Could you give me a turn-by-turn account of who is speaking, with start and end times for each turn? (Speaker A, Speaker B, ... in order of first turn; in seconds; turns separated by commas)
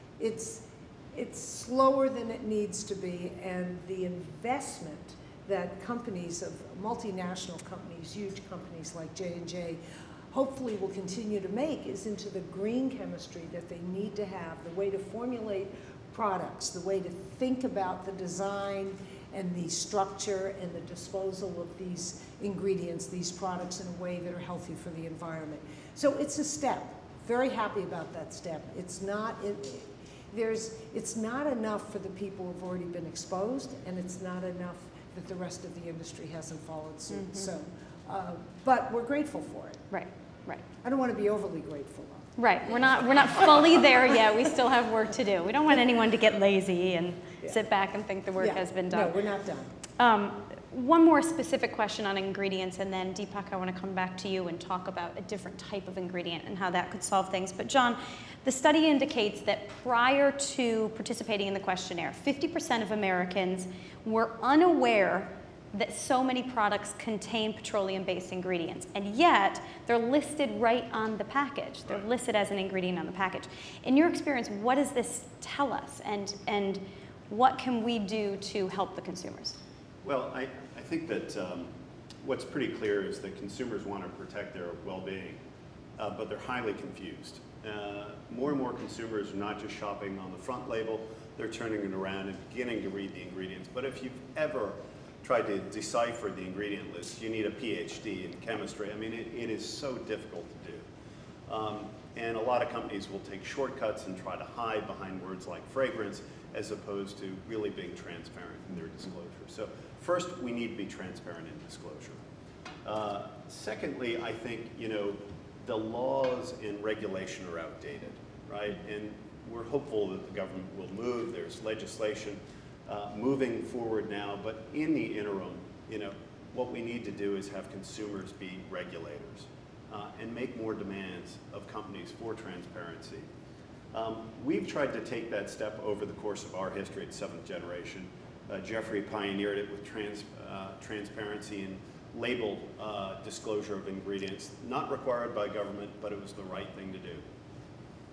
Speaker A: 0.2-9.8, Speaker A: 10.3-39.8, Speaker B: 37.1-37.5, Speaker B: 39.9-40.6, Speaker A: 40.8-42.3, Speaker B: 42.4-49.1, Speaker A: 48.4-49.7, Speaker B: 50.0-79.6, Speaker C: 80.0-81.7, Speaker C: 82.2-85.4, Speaker C: 86.0-100.8, Speaker C: 101.5-112.2, Speaker C: 112.8-133.3, Speaker C: 133.9-147.2